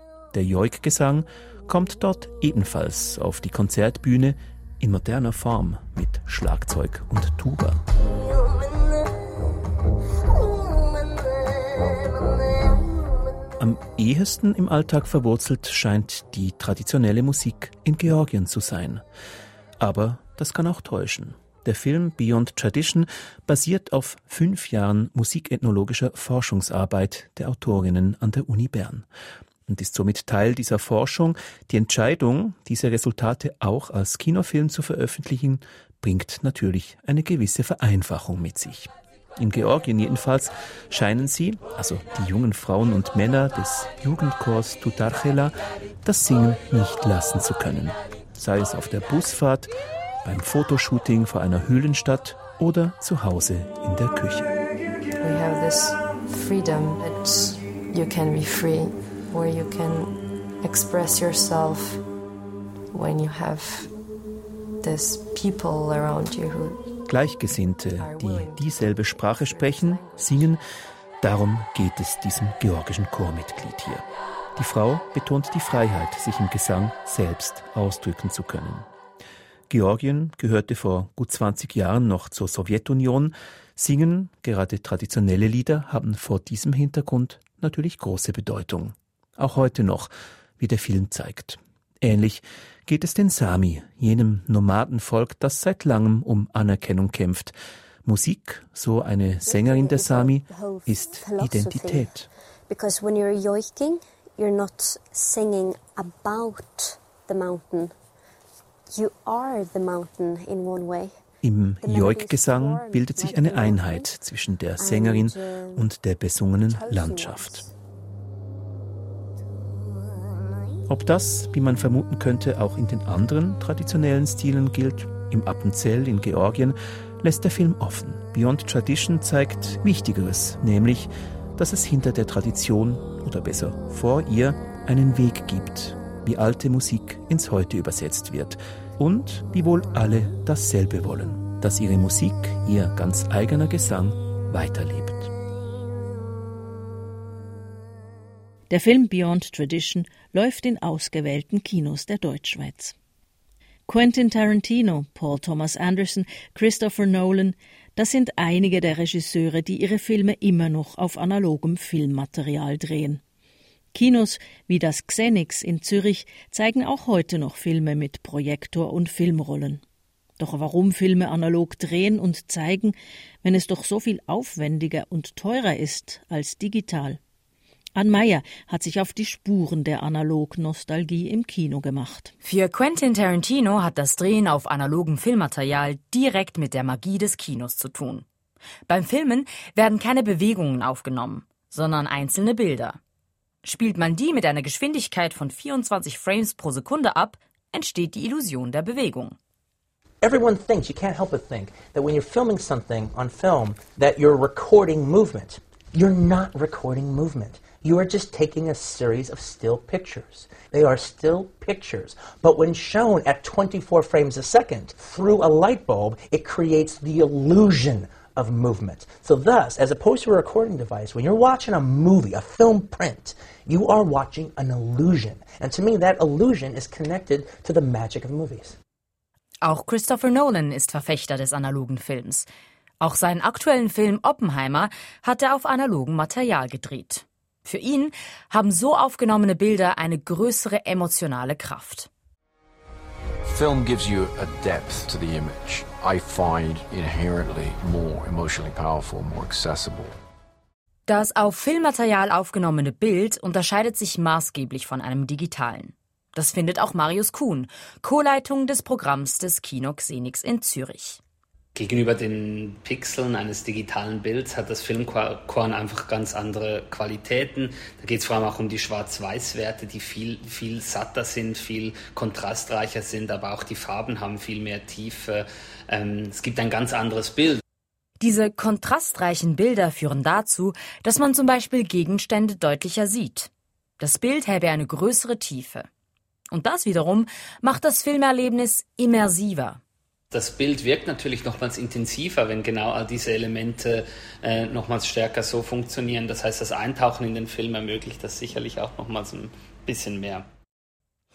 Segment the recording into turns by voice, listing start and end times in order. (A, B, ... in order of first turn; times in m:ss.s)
0:00.3-0:07.8 A
0:13.6-0:19.0 A
0:19.8-0:29.1 A
0:29.7-0:49.7 A
0:50.2-0:54.5 A
0:55.2-1:02.0 B
1:02.9-1:03.9 B
1:04.8-1:06.8 B
1:07.1-1:10.6 A
1:07.9-1:10.5 B
1:11.2-1:14.0 A
1:14.6-1:18.9 A
1:19.7-1:42.3 A
1:39.4-1:47.9 C
1:48.9-1:51.2 C
1:51.4-1:57.6 A
1:51.8-1:54.1 C
1:54.8-1:55.9 C
1:56.7-1:57.7 C
2:00.9-2:25.3 A
2:28.7-2:32.9 D
2:33.9-2:43.2 D
2:43.9-2:49.8 D
2:50.4-2:57.2 D
2:57.9-3:02.3 D
3:02.4-3:08.2 E
3:08.9-3:13.0 E
3:13.6-3:19.4 E
3:20.2-3:48.8 F
3:49.6-3:52.5 E
3:53.0-4:02.1 E
4:03.4-4:10.2 G
4:11.1-4:21.2 E
4:21.7-4:37.6 H
4:38.2-4:45.9 E
4:46.5-4:49.8 E
4:50.3-5:00.5 H